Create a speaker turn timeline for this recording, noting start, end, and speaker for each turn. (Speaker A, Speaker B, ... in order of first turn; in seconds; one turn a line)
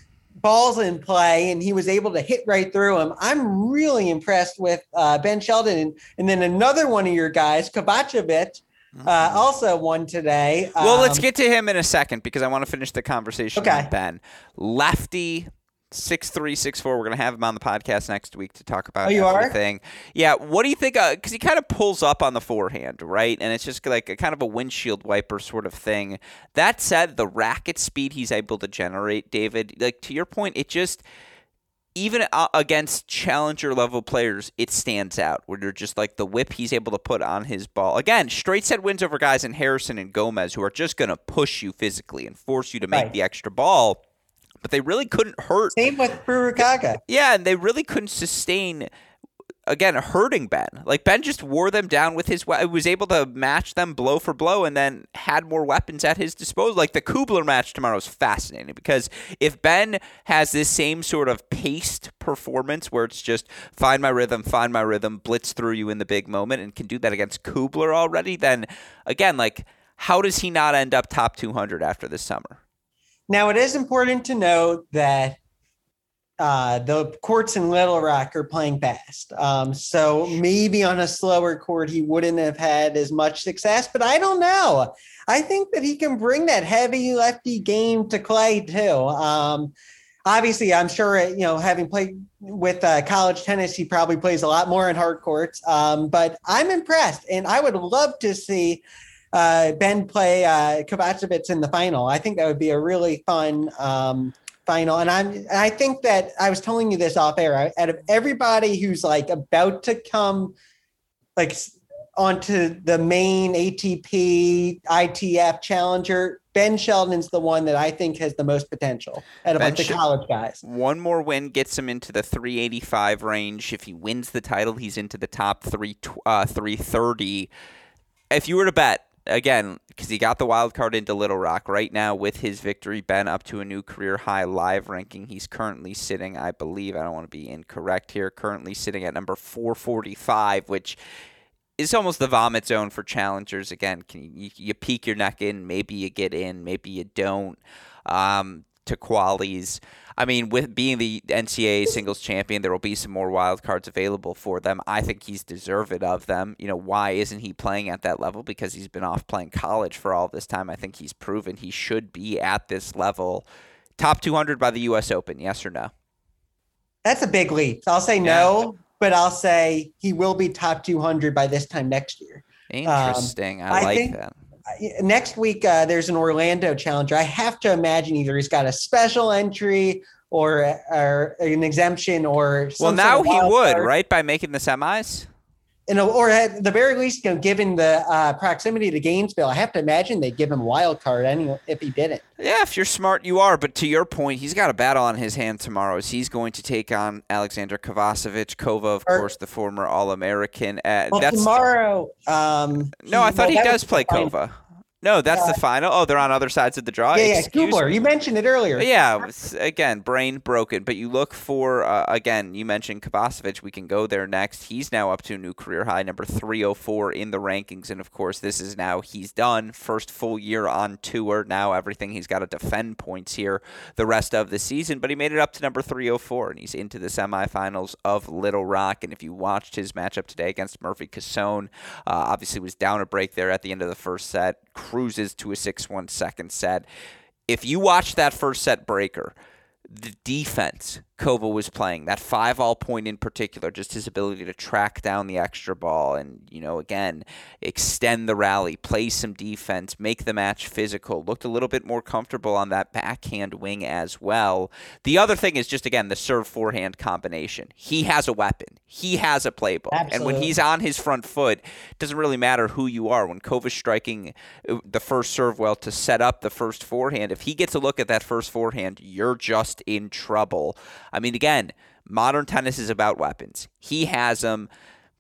Speaker A: 0.4-11.2
Speaker B: 9.0-9.4
Speaker B: 10.8-31.0
Speaker A: 13.6-13.9
Speaker A: 19.0-19.6
Speaker B: 32.0-44.0
Speaker B: 44.6-45.8
Speaker A: 45.8-47.0
Speaker B: 47.1-48.9
Speaker B: 49.7-72.6
Speaker A: 73.3-75.4
Speaker A: 76.4-89.7
Speaker A: 90.3-110.5
Speaker A: 111.4-120.6
Speaker B: 119.6-120.0
Speaker B: 120.6-127.5
Speaker B: 128.3-141.0
Speaker B: 141.8-163.5
Speaker B: 164.0-165.9
Speaker A: 167.1-174.2
Speaker B: 168.2-168.5
Speaker B: 172.7-174.3
Speaker A: 174.7-183.9
Speaker B: 182.8-185.3
Speaker A: 185.9-192.2
Speaker B: 192.4-201.7
Speaker A: 201.1-204.3
Speaker B: 203.0-207.8
Speaker A: 205.3-205.6
Speaker A: 207.1-208.9
Speaker B: 208.8-236.9
Speaker B: 237.5-239.3
Speaker B: 239.9-274.7
Speaker A: 259.9-260.5